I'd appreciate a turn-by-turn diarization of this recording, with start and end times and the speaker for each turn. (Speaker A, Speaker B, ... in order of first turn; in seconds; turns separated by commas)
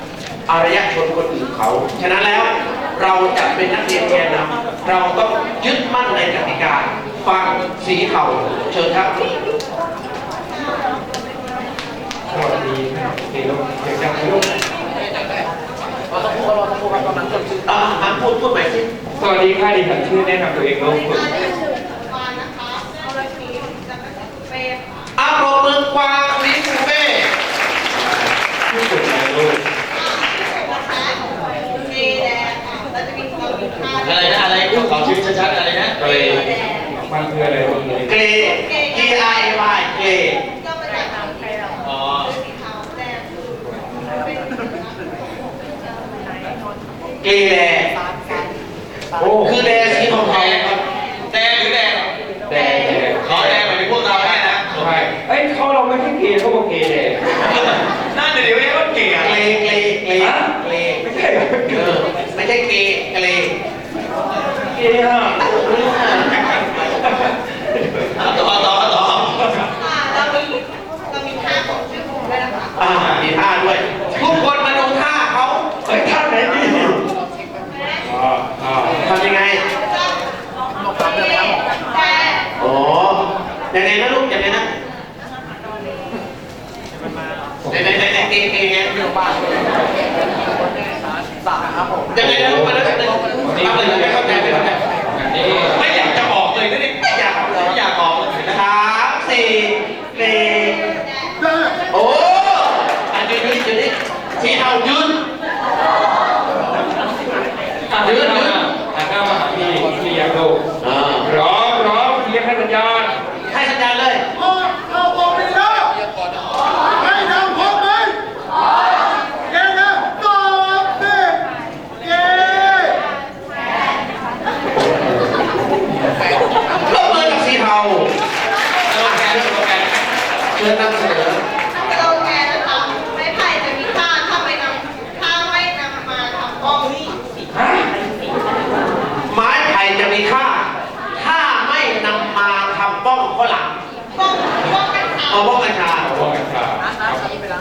Speaker A: 0.5-9.3, Speaker B: 12.3-14.5, Speaker A: 17.6-18.9, Speaker B: 19.1-21.4, Speaker A: 25.2-27.3, Speaker B: 28.7-29.6, Speaker B: 31.9-32.2, Speaker C: 34.0-36.0, Speaker B: 36.0-38.2, Speaker A: 38.1-40.4, Speaker C: 41.8-42.4, Speaker A: 47.2-47.9, Speaker B: 49.2-50.2, Speaker A: 49.4-50.8, Speaker C: 50.1-50.6, Speaker C: 51.3-52.1, Speaker B: 52.5-53.6, Speaker C: 53.2-55.1, Speaker B: 54.7-57.6, Speaker C: 58.1-59.4, Speaker A: 59.2-61.0, Speaker B: 60.2-60.5, Speaker B: 61.0-62.0, Speaker A: 61.7-63.5, Speaker B: 64.7-68.3, Speaker A: 65.5-66.3, Speaker C: 68.2-69.5, Speaker B: 69.2-69.7, Speaker A: 72.8-75.7, Speaker C: 72.9-73.2, Speaker B: 75.8-77.0, Speaker B: 78.0-79.1, Speaker A: 79.0-79.6, Speaker A: 82.6-84.6, Speaker B: 87.6-87.9, Speaker A: 87.7-88.9, Speaker A: 92.1-94.8, Speaker B: 92.2-95.8, Speaker C: 95.6-98.6, Speaker A: 98.5-100.8, Speaker A: 101.9-105.2, Speaker B: 107.9-110.6, Speaker A: 108.0-108.6, Speaker A: 110.8-111.3, Speaker B: 111.2-113.1, Speaker A: 113.5-114.3, Speaker B: 124.7-126.2, Speaker A: 126.8-128.1, Speaker C: 128.9-129.9, Speaker A: 129.0-129.6, Speaker A: 130.5-131.4, Speaker C: 131.8-132.2, Speaker B: 137.5-137.9, Speaker A: 139.3-143.8, Speaker A: 145.2-146.2, Speaker B: 146.0-147.2